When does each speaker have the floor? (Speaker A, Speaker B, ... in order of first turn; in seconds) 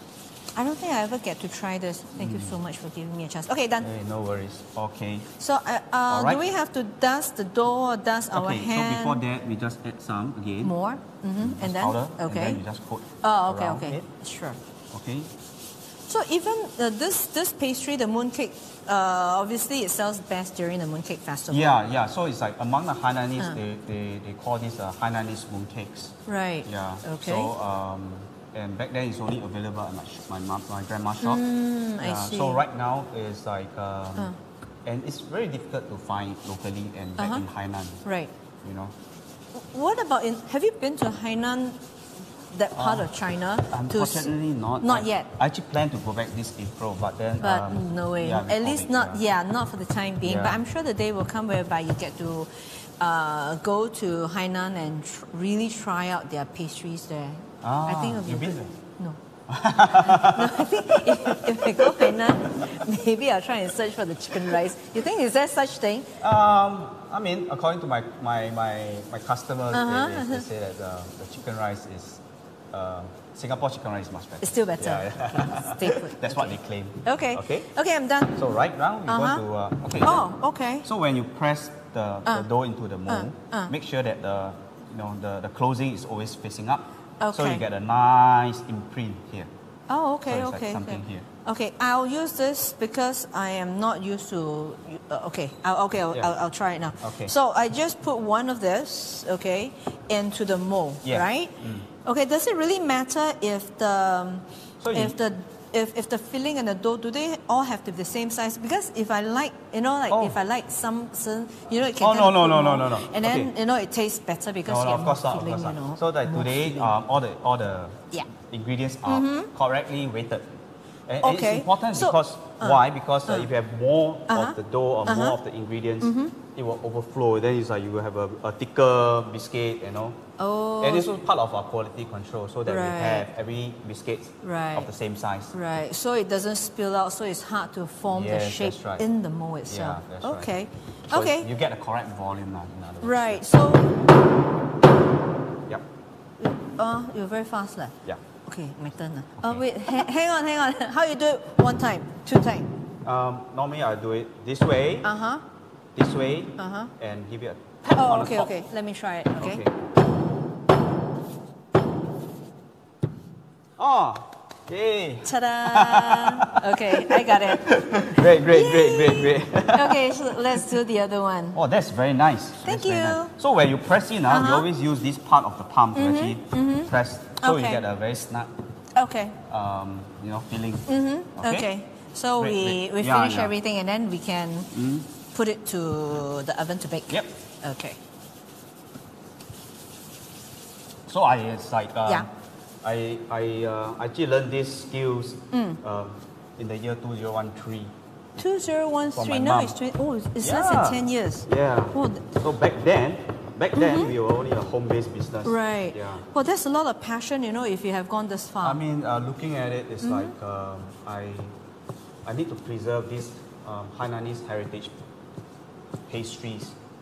Speaker A: 0.6-3.9, 5.4-9.2, 10.6-12.6, 13.2-14.6, 16.1-21.8, 26.3-27.5, 31.2-32.6, 37.2-37.4, 38.0-38.3, 39.5-41.8, 42.5-45.3, 47.4-59.2, 59.9-66.2, 69.7-70.5, 74.4-78.4, 79.1-79.4, 80.0-80.9, 83.1-83.7, 87.2-87.6, 89.9-116.9, 119.1-119.5, 121.2-123.5, 124.3-125.4, 126.0-126.3, 130.4-131.1, 132.7-133.3, 134.4-134.9, 135.5-141.5, 143.0-143.9, 146.4-152.7, 155.0-155.4, 156.6-156.9, 157.9-159.6, 165.2-171.6, 172.6-173.3, 174.3-174.7, 175.9-177.8, 178.9-179.4, 180.9-188.0, 195.5-195.8, 198.4-202.3, 203.8-204.1, 205.4-208.8, 210.0-210.3
Speaker B: 2.2-2.6, 3.8-5.3, 6.1-6.4, 8.3-10.8, 11.4-14.1, 14.9-15.3, 21.5-31.4, 32.0-34.3, 34.8-38.0, 38.6-38.9, 42.7-43.1, 43.6-49.2, 50.2-50.6, 57.6-58.8, 59.5-62.7, 66.2-77.7, 78.3-80.3, 80.8-89.5, 90.3-91.2, 97.0-97.3, 101.0-101.8, 104.8-105.2, 110.1-110.4, 112.0-113.5, 114.6-120.5, 121.1-130.2, 130.8-135.6, 138.1-139.1, 139.7-140.5, 141.1-143.5, 149.4-149.6, 153.0-155.1, 155.9-158.5, 159.3-159.8, 163.8-170.7, 171.5-178.5, 179.4-181.7, 182.4-183.5, 184.7-185.1, 191.1-192.3, 192.8-197.9, 199.1-199.8, 200.4-206.2, 208.6-211.6, 212.2-214.9, 216.1-216.8